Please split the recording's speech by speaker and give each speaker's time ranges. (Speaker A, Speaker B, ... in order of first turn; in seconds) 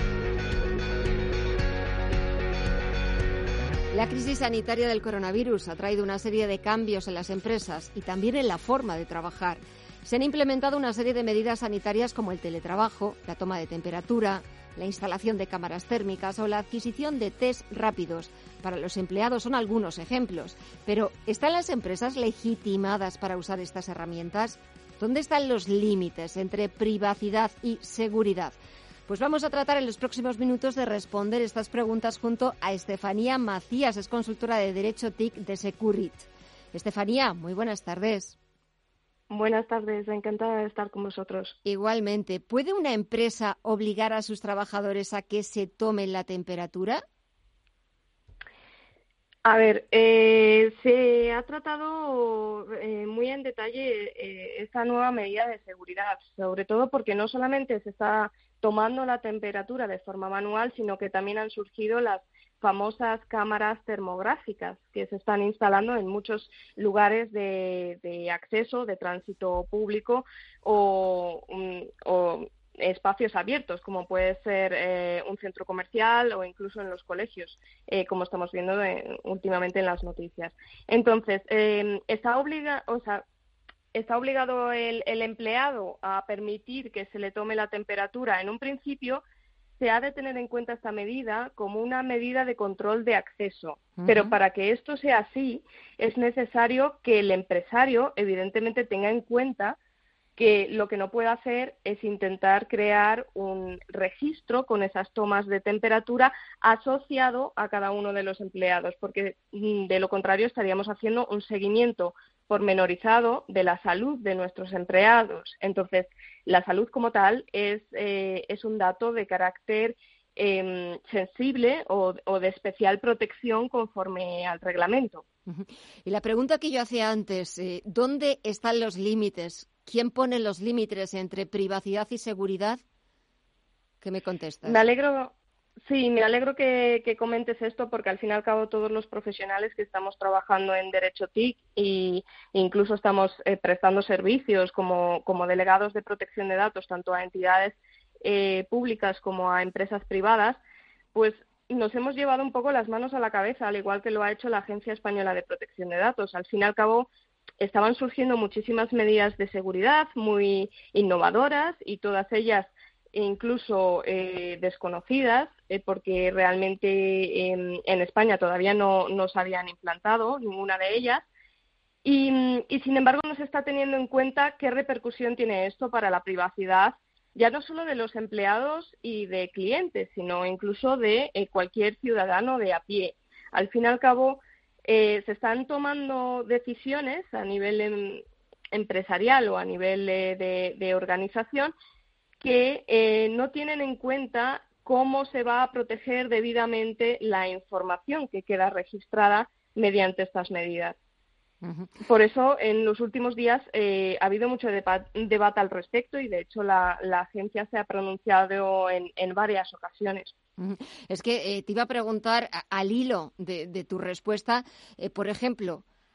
Speaker A: 3.9-38.4, 41.6-47.0, 94.0-94.4, 125.5-132.8, 134.0-134.8, 201.6-201.9, 210.6-215.8
Speaker B: 39.3-41.5, 49.4-83.2, 83.9-89.2, 89.8-99.8, 100.3-125.2, 134.6-150.6, 151.1-157.1, 157.6-171.2, 172.0-191.7, 192.4-200.9, 202.0-210.3